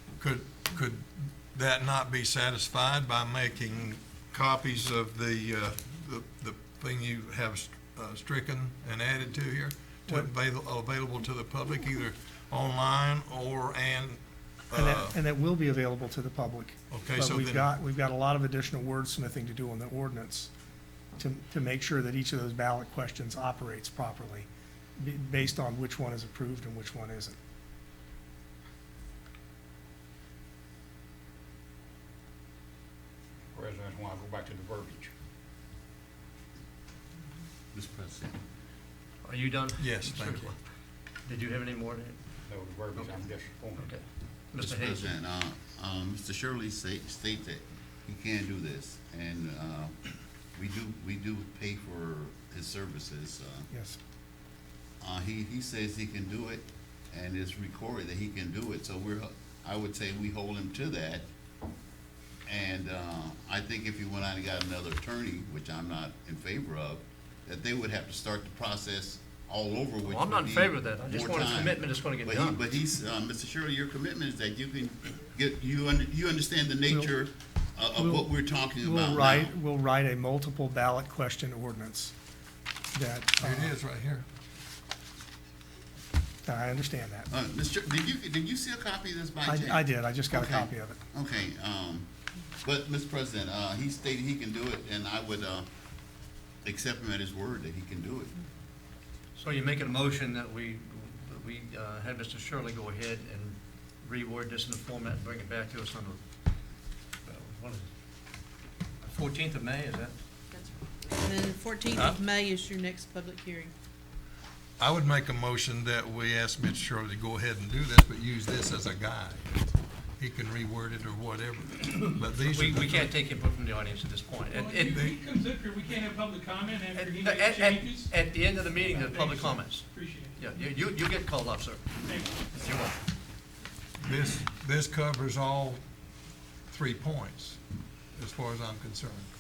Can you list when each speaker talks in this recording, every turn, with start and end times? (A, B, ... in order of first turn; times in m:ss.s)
0:00.2-0:15.1 A
0:14.7-0:20.5 B
0:16.9-0:17.6 A
0:21.2-0:27.4 B
0:33.5-0:35.1 C
0:37.7-0:38.4 D
0:39.2-0:40.5 E
0:39.8-0:40.5 A
0:41.2-0:42.2 E
0:42.5-0:43.9 C
0:43.8-0:45.2 E
0:44.6-0:50.0 D
0:50.6-0:53.7 D
0:53.7-0:54.0 B
0:55.0-1:01.2 D
1:02.4-1:19.5 D
1:10.0-1:12.7 E
1:18.0-1:22.1 B
1:22.9-1:23.7 B
1:23.4-1:24.2 A
1:26.4-1:27.3 B
1:27.3-1:32.1 D
1:29.4-1:31.0 B
1:32.6-1:35.7 D
1:36.6-1:38.4 D
1:39.4-1:46.2 E
1:47.2-1:47.9 E
1:49.0-1:50.1 E
1:50.5-1:53.7 F
1:51.9-1:52.2 A
1:54.8-2:03.1 A
2:02.4-2:05.0 E
2:04.5-2:06.8 G
2:04.9-2:05.2 A
2:06.9-2:09.8 E
2:07.2-2:07.6 C
2:07.7-2:08.1 G
2:09.9-2:10.4 G
2:10.4-2:11.8 E
2:12.1-2:12.5 G
2:12.5-2:12.9 E
2:14.0-2:15.8 A
2:16.7-2:17.6 A
2:18.1-2:19.3 A